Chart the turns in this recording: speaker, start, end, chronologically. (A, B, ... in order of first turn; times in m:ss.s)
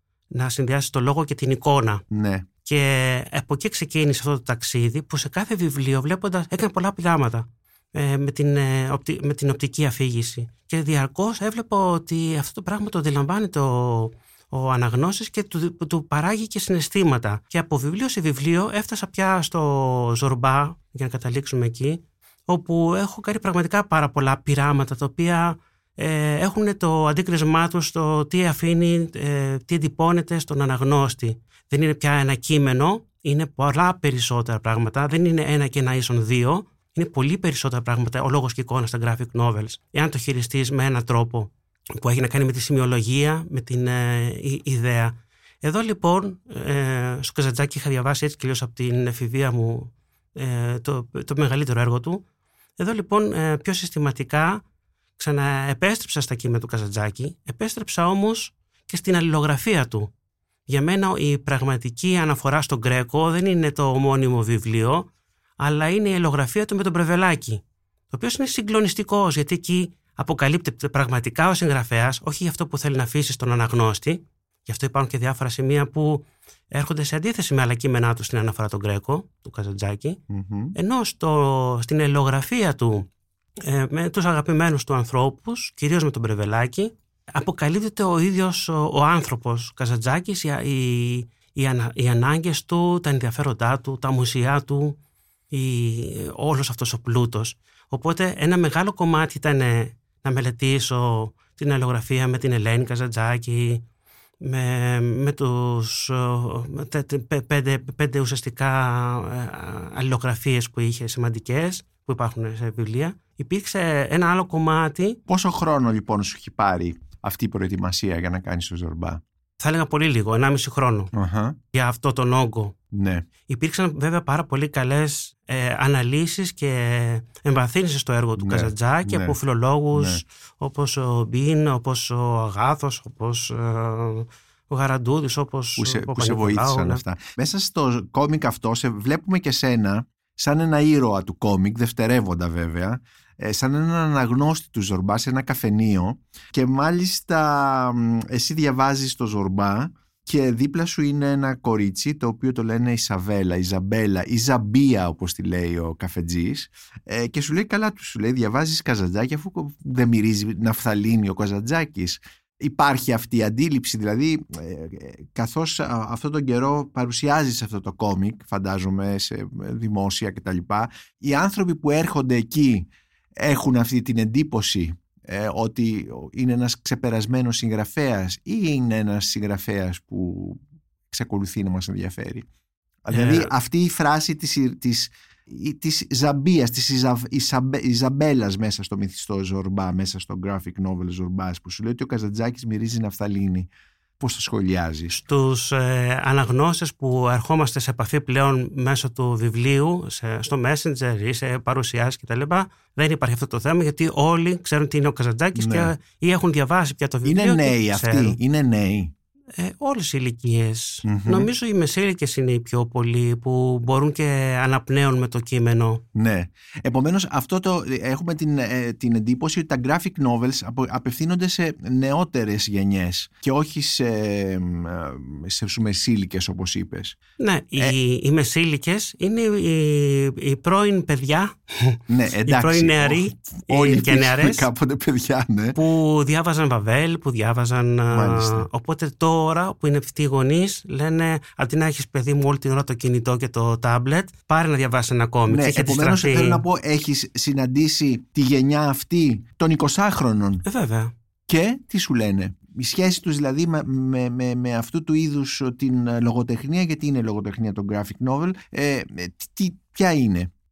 0:00.3-0:02.0 A
0:02.1-0:02.4 B
0:02.6-0:52.2 A
0:52.8-0:54.6 A
0:55.2-1:00.1 A
1:00.7-1:05.1 A
1:05.6-1:20.2 A
1:20.3-1:20.7 B
1:20.7-1:23.1 A
1:23.6-1:35.0 A
1:35.5-1:43.8 A
1:44.4-1:55.2 A
1:55.3-1:59.2 B
1:59.6-2:01.1 A
2:01.1-2:01.6 B
2:01.7-2:02.7 A
2:02.9-2:03.2 B
2:03.5-2:17.0 A
2:08.4-2:09.4 B
2:09.9-2:10.2 B
2:15.8-3:02.5 B
3:03.0-3:15.1 B
3:03.1-3:03.5 A
3:15.1-3:28.4 A
3:25.5-3:25.9 B
3:27.2-3:29.1 B
3:29.5-3:36.0 A
3:31.0-3:31.5 B
3:36.1-3:47.2 B
3:47.4-3:54.6 A
3:52.1-3:55.8 B
3:55.7-4:06.6 A
3:58.1-3:58.7 B
4:05.5-4:10.6 B
4:10.6-4:11.1 A
4:11.5-4:20.5 B